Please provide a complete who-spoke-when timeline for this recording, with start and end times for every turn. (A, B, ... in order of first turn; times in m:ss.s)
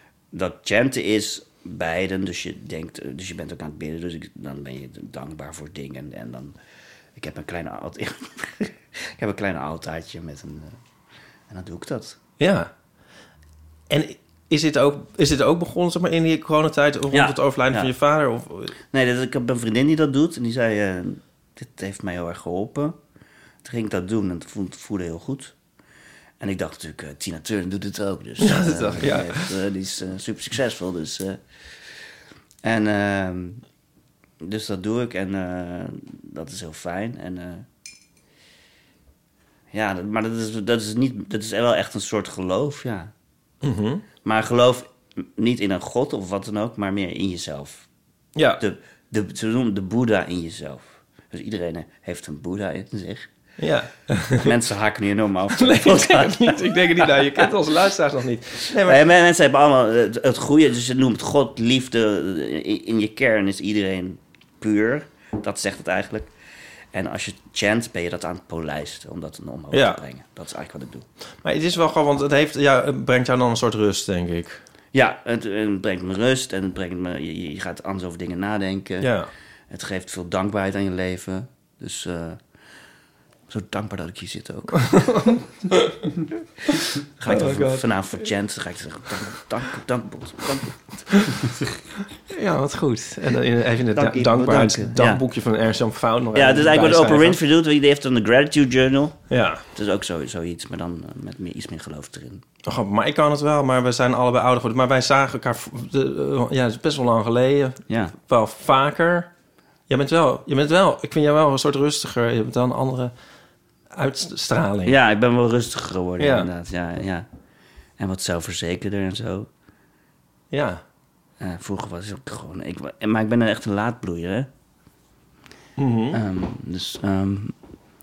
0:00.3-0:06.6 A
0:07.2-0:10.8 A
0:11.5-0:12.2 A
0:12.4-0:12.7 B
0:13.9-0:18.7 B
0:17.1-0:17.9 A
0:18.9-0:23.0 A
0:23.6-0:25.5 A
0:26.4-0:31.4 A
0:28.4-0:29.5 B
0:32.6-0:33.6 A
0:34.4-0:37.6 A
0:39.7-0:43.1 A
0:43.6-0:44.0 B
0:44.2-0:47.8 A
0:48.3-0:48.6 B
0:48.6-0:53.3 A
0:53.6-0:54.5 B
0:54.4-0:57.5 A
0:55.6-0:59.0 B
0:58.7-1:06.3 A
1:06.9-1:11.0 A
1:09.7-1:10.0 B
1:11.4-1:14.6 B
1:14.9-1:19.1 A
1:19.0-1:19.3 B
1:19.7-1:22.4 A
1:23.5-1:25.2 A
1:24.8-1:27.9 B
1:26.7-1:31.3 A
1:32.3-1:37.4 B
1:33.9-1:35.2 A
1:36.3-1:42.4 A
1:39.3-1:39.6 B
1:42.6-1:49.3 B
1:47.9-1:48.1 A
1:49.9-1:53.1 B
1:53.9-1:55.0 B
1:54.8-1:57.2 A
1:56.2-1:56.5 B
1:58.0-1:59.5 A
2:00.5-2:00.8 B
2:01.4-2:04.5 A
2:05.8-2:06.2 B
2:06.1-2:07.5 A